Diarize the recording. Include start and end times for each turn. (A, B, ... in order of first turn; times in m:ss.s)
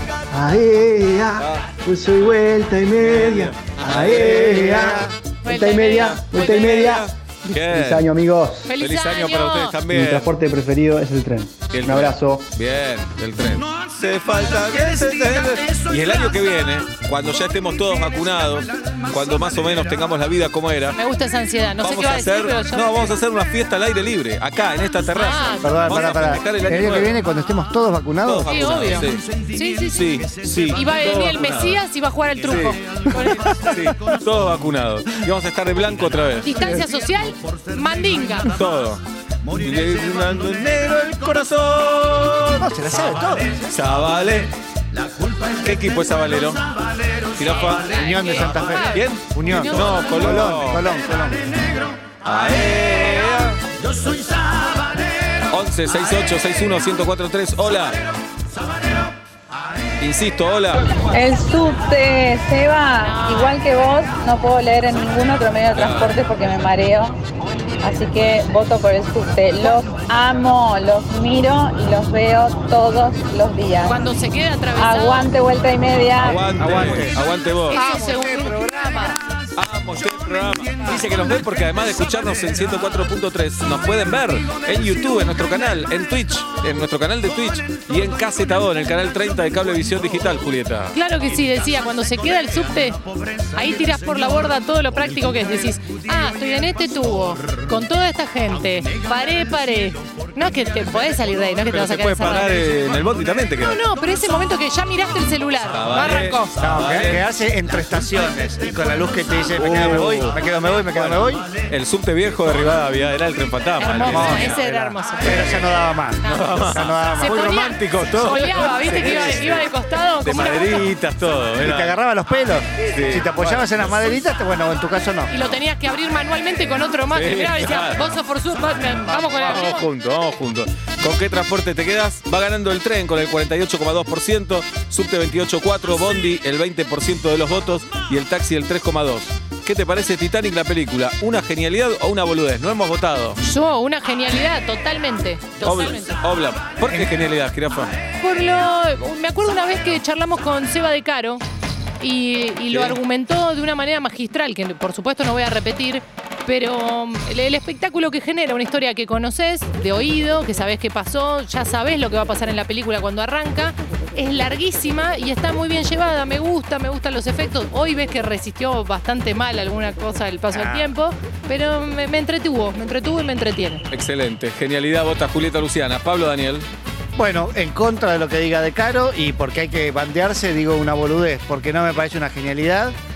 0:00.3-0:08.7 A
0:01.4-0:01.8 B
0:03.0-0:04.9 B
0:04.1-0:05.1 C
0:05.4-0:06.8 D
0:06.0-0:08.1 B
0:08.6-0:09.8 D
0:08.8-0:10.3 B
0:09.9-0:12.4 A
0:11.7-0:21.0 B
0:20.9-0:23.1 D
0:21.8-0:27.2 B
0:25.1-0:26.0 D
0:25.6-0:28.8 C
0:28.2-0:29.4 B
0:28.5-0:33.7 D
0:29.9-0:31.8 B
0:32.4-0:36.6 B
0:33.2-0:33.8 C
0:36.4-0:38.5 D
0:38.5-0:42.7 B
0:42.6-0:43.7 C
0:43.7-0:44.5 B
0:45.6-0:46.6 B
0:47.3-0:48.1 B
0:47.9-0:50.5 D
0:48.0-0:51.4 C
0:48.9-0:50.8 B
0:52.2-0:53.6 B
0:55.5-0:58.0 B
1:00.0-1:01.0 B
1:01.1-1:07.2 E
1:03.0-1:03.6 D
1:05.7-1:06.1 B
1:07.8-1:14.1 E
1:13.8-1:15.3 D
1:14.7-1:16.6 E
1:16.2-1:17.8 B
1:16.4-1:19.2 C
1:17.7-1:19.2 D
1:19.6-1:31.0 B
1:30.9-1:33.0 D
1:33.5-1:42.7 D
1:41.7-1:43.8 B
1:43.6-1:46.5 D
1:45.7-1:47.2 B
1:46.6-1:51.5 C
1:49.5-1:50.4 B
1:50.9-1:54.6 B
1:53.8-1:55.6 D
1:54.1-1:57.5 C
1:55.2-1:55.6 B
1:56.2-2:00.9 D
1:56.2-1:59.7 B
2:00.2-2:02.0 B
2:01.6-2:05.3 C
2:02.9-2:04.0 B
2:05.3-2:09.8 D
2:07.1-2:08.1 B
2:09.1-2:09.5 C
2:09.4-2:23.4 B
2:23.4-2:26.2 D
2:25.6-2:27.9 B
2:28.2-2:31.4 D
2:32.0-2:53.8 D
2:32.7-2:33.0 B
2:50.5-2:50.9 C
2:53.9-2:56.7 B
2:57.2-3:03.0 C